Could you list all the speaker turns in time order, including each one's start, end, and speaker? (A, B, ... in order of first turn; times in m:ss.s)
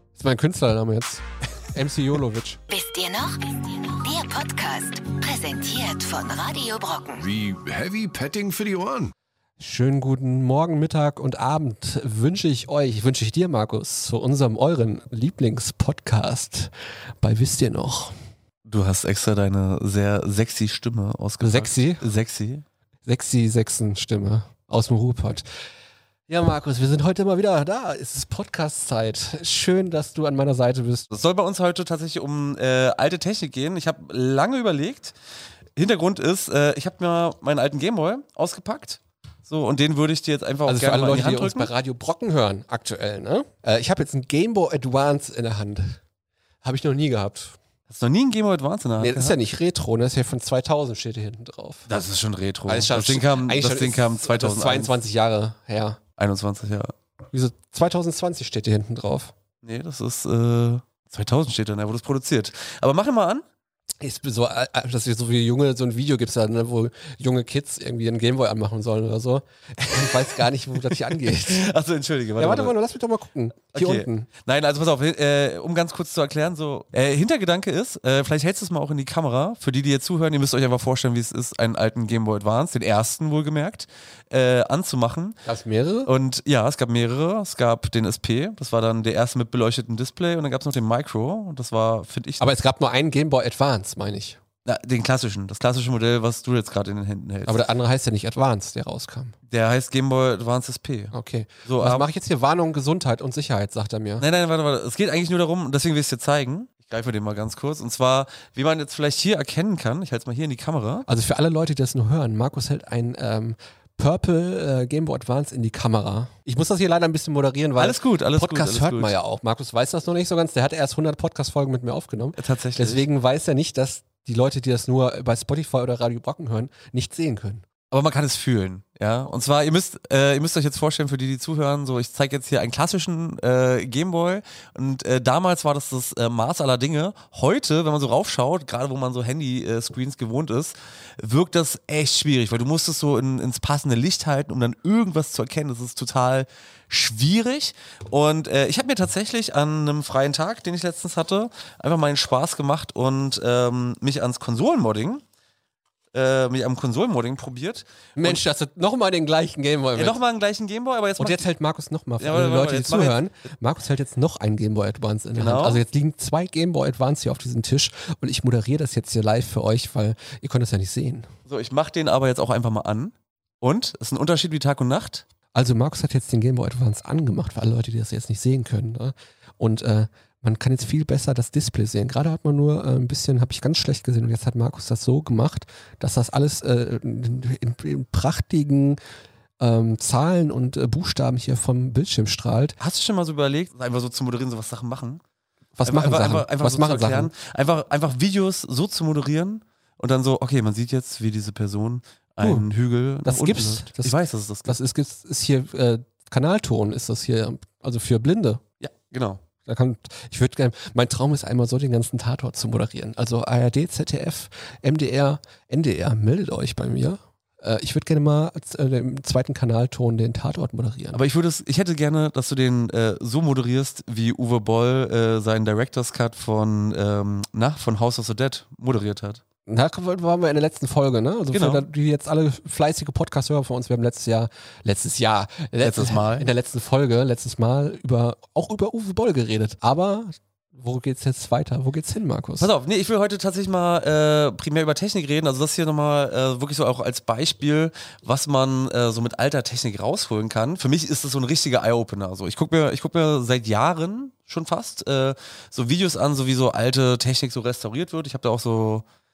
0:00.2-0:02.6 A
0:02.7-0:07.3 B
0:07.2-0:09.1 C
0:09.6-0:16.7 A
0:17.2-0:18.1 A
0:18.6-0:22.6 D
0:21.4-0:22.1 A
0:23.1-0:25.4 A
0:26.3-0:31.1 A
0:31.1-0:35.2 D
0:35.8-0:41.7 D
0:40.7-0:46.0 A
0:46.6-0:47.6 A
0:47.9-0:49.4 D
0:49.0-0:51.9 A
0:51.9-0:55.0 D
0:52.7-0:56.0 A
0:56.2-0:56.9 D
0:57.3-0:59.3 A
0:59.6-1:03.4 D
1:04.0-1:11.7 A
1:09.9-1:10.2 D
1:10.8-1:12.8 D
1:12.4-1:14.3 A
1:13.7-1:25.4 D
1:25.4-1:26.1 A
1:26.0-1:32.5 D
1:32.4-1:34.4 A
1:34.7-1:37.6 D
1:37.5-1:39.3 A
1:39.5-1:41.1 D
1:41.1-1:44.2 A
1:41.6-1:42.1 D
1:44.2-1:51.1 D
1:51.1-2:07.6 A
1:57.8-1:59.2 D
2:02.4-2:03.0 D
2:07.9-2:35.2 D
2:36.1-2:38.4 D
2:38.2-2:40.2 A
2:40.0-2:41.5 D
2:41.2-2:51.3 A
2:42.2-2:43.2 D
2:45.4-2:45.8 D
2:51.5-2:55.2 D
2:55.5-3:09.0 A
3:09.6-3:12.8 A
3:12.8-3:15.2 D
3:15.8-3:17.3 A
3:15.8-3:24.8 D
3:23.2-3:28.6 A
3:28.8-3:29.4 D
3:29.6-3:41.2 A
3:41.1-3:49.4 D
3:49.7-4:02.7 A
3:51.5-3:51.8 D
3:55.8-3:56.5 D
4:02.6-4:19.0 D